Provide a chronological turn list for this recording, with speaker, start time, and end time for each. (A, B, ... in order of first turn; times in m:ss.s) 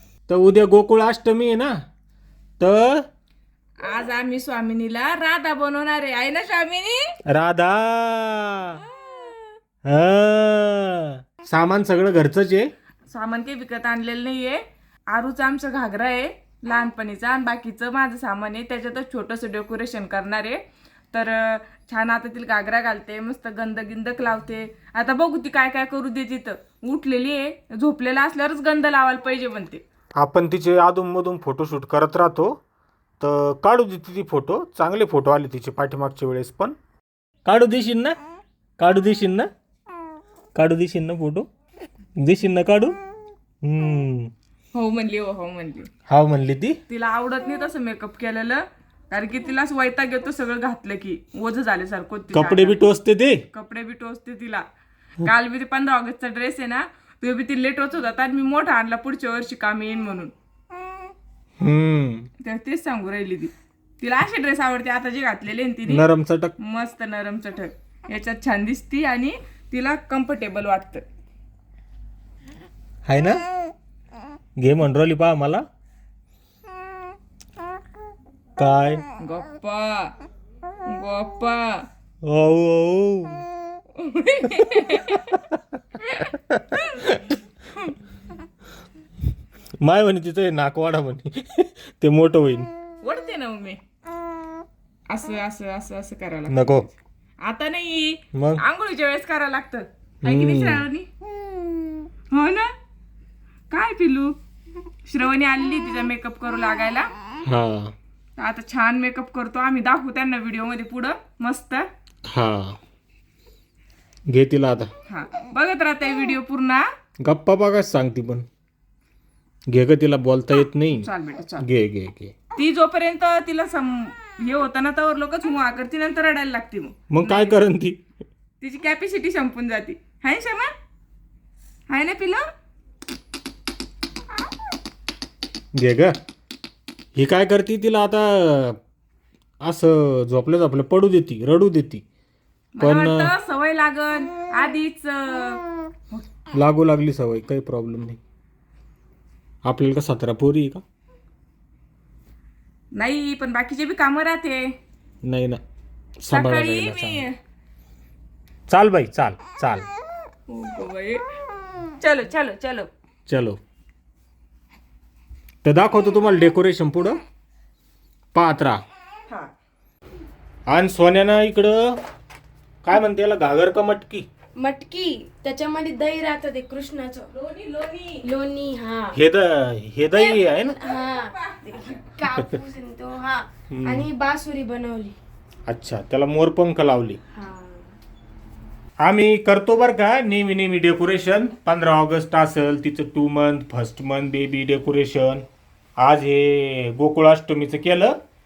0:00.3-0:01.8 A
0:02.6-0:03.0 A
0:03.8-0:07.1 B
0:07.3-0:08.8 A
0:08.8-0:09.6 B
0:09.8-0:12.7 A
0:13.1-0:20.6 B
0:21.1-0:29.8 B
0:30.2-0:32.5 A
0:33.2-0:36.8 A
0:37.4-0:38.2 A
0:38.8-0:39.5 A
0:40.5-0:41.4 A
0:42.2-0:43.0 A
0:43.6-0:44.3 A
0:44.7-0:45.9 B
0:46.1-0:46.8 A
0:46.9-0:52.8 B
0:52.3-0:53.4 A
0:53.5-0:54.6 B
0:55.2-1:00.3 B
1:01.6-1:02.3 A
1:02.4-1:06.0 B
1:05.9-1:06.5 A
1:06.6-1:11.0 B
1:13.0-1:13.4 A
1:14.6-1:15.6 A
1:18.6-1:19.0 A
1:19.2-1:20.1 B
1:20.8-1:21.9 B
1:22.2-1:23.4 A
1:23.9-1:25.3 B
1:25.3-1:25.6 A
1:26.3-1:27.3 A
1:29.8-1:32.7 A
1:33.0-1:33.8 B
1:35.1-1:36.9 B
1:36.5-1:36.9 A
1:37.4-1:41.1 B
1:38.3-1:38.6 A
1:40.2-1:40.8 A
1:42.3-1:42.7 B
1:43.7-1:44.4 B
1:45.0-1:47.1 B
1:47.4-1:47.9 A
1:48.4-1:51.8 B
1:52.3-1:52.8 A
1:54.3-1:54.9 A
1:55.1-1:56.9 B
1:57.2-1:58.4 A
1:59.7-2:01.1 A
2:00.9-2:01.6 B
2:01.6-2:02.3 A
2:02.6-2:07.6 B
2:07.1-2:08.0 A
2:08.6-2:10.7 B
2:11.9-2:12.4 B
2:15.8-2:16.2 A
2:17.1-2:18.8 A
2:19.6-2:22.0 A
2:22.8-2:26.3 B
2:22.8-2:23.3 A
2:26.5-2:28.2 A
2:29.6-2:30.8 A
2:33.0-2:34.7 B
2:35.2-2:35.6 A
2:36.2-2:37.2 A
2:36.3-2:37.4 B
2:38.7-2:39.8 A
2:40.5-2:41.2 B
2:42.0-2:42.9 B
2:43.3-2:43.6 A
2:45.6-2:47.2 A
2:48.3-2:48.8 A
2:50.7-2:52.0 A
2:52.8-2:54.2 A
2:54.6-2:57.3 C
2:57.3-2:58.2 B
2:58.2-2:59.2 C
2:59.1-3:00.7 A
3:00.2-3:02.1 B
3:00.3-3:05.2 C
3:03.7-3:04.1 A
3:05.7-3:07.2 A
3:07.4-3:07.8 C
3:09.0-3:15.4 A
3:16.0-3:18.2 A